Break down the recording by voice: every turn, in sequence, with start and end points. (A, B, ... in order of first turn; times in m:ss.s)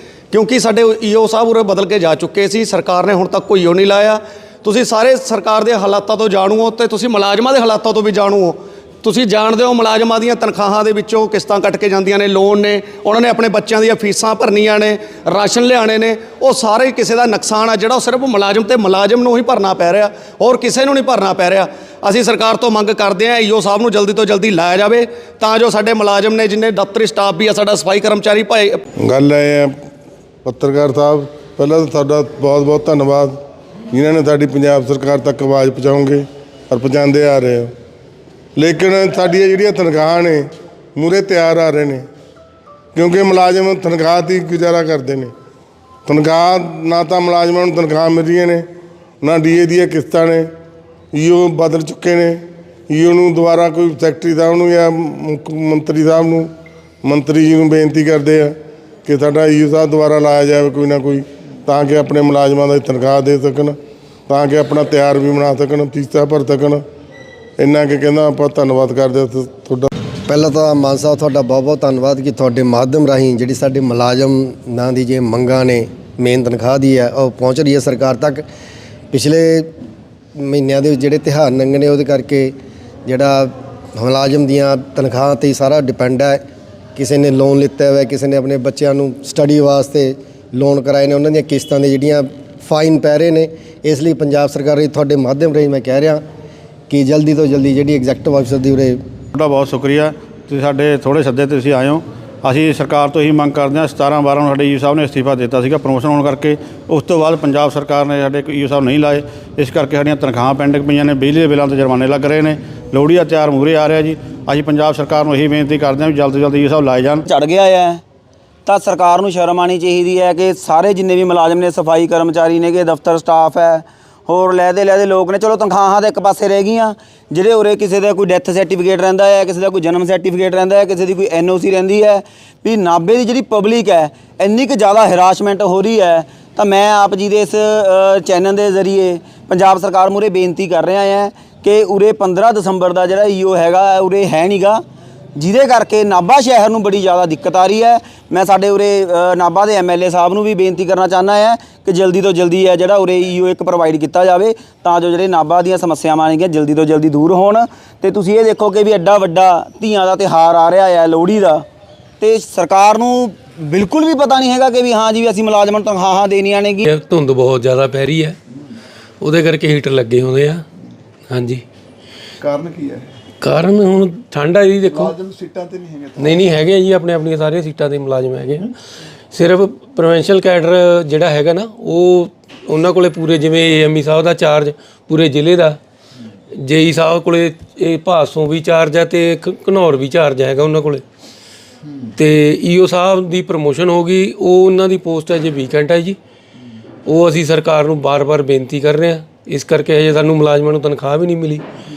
0:00.3-0:28.8 A
0:29.0-0:29.7 B
0:30.4-0:33.4 B
0:33.9-0:37.7 B
0:38.6-0:42.0 B
0:42.9-0:45.3 B
0:46.0-0:48.6 B
0:49.2-0:50.5 B
0:51.1-0:56.5 B
0:57.0-1:03.8 B
1:04.3-1:06.8 B
1:07.6-1:09.9 B
1:10.3-1:18.4 C
1:19.1-1:19.7 C
1:20.4-1:22.5 C
1:23.0-1:26.4 C
1:27.0-1:36.2 C
1:36.9-1:39.0 C
1:39.3-1:57.2 D
1:57.2-1:58.0 E
1:58.6-2:24.8 E
2:25.3-2:41.6 E
2:42.2-2:46.8 E
2:46.8-2:48.4 F
2:49.2-2:50.6 F
2:51.3-2:51.6 F
2:52.4-2:53.1 G
2:53.4-2:55.2 F
2:54.9-2:56.3 G
2:56.2-2:58.7 F
2:59.3-3:05.8 F
3:06.6-3:11.0 F
3:12.2-3:16.2 F
3:17.0-3:21.6 F